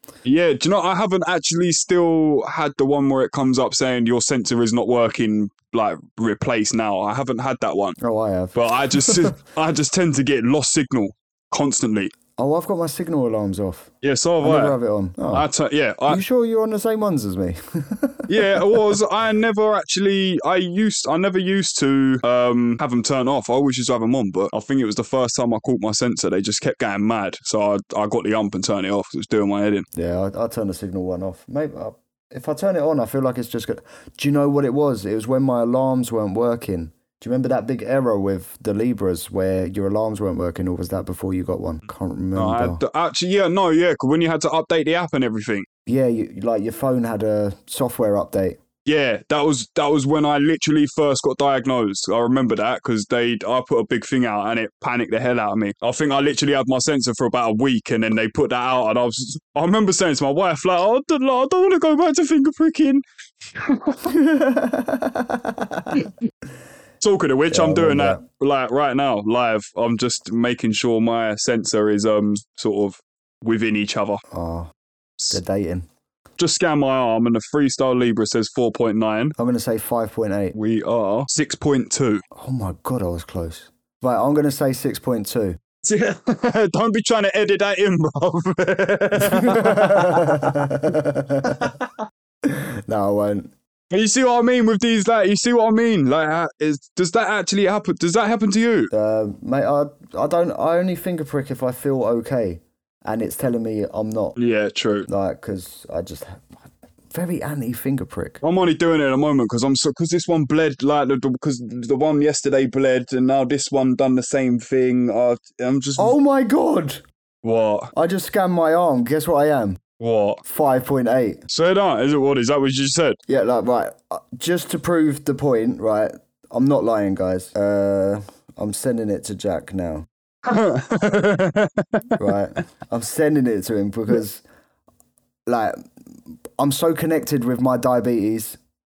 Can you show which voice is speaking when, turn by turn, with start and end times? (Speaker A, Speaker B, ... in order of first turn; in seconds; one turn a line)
Speaker A: 0.2-8.0
Speaker B: 8.0-9.3
Speaker A: 8.5-12.1
Speaker B: 12.4-15.5
Speaker A: 14.0-14.8
Speaker A: 15.3-16.2
Speaker B: 16.1-18.8
Speaker A: 18.3-29.9
Speaker B: 29.9-42.8
Speaker A: 42.4-45.7
Speaker B: 45.9-48.6
Speaker A: 48.9-63.0
Speaker A: 63.5-64.1
Speaker B: 64.0-66.0
Speaker A: 67.0-74.2
Speaker B: 67.5-68.2
Speaker B: 74.3-74.7
Speaker B: 75.3-75.9
Speaker A: 76.4-79.3
Speaker B: 79.4-80.5
Speaker A: 80.5-82.2
Speaker B: 82.3-85.6
Speaker A: 85.8-90.7
Speaker B: 89.2-91.7
Speaker B: 92.4-93.5
Speaker A: 93.9-98.9
Speaker B: 98.9-104.4
Speaker A: 104.4-105.1
Speaker B: 105.1-106.5
Speaker B: 107.1-108.4
Speaker A: 108.4-116.2
Speaker B: 116.0-117.0
Speaker A: 117.4-117.9
Speaker B: 117.9-119.8
Speaker A: 120.0-120.4
Speaker B: 120.4-121.4
Speaker A: 121.5-123.2
Speaker B: 123.3-130.1
Speaker A: 130.4-132.2
Speaker B: 132.2-134.4
Speaker B: 135.5-135.9
Speaker B: 136.6-138.6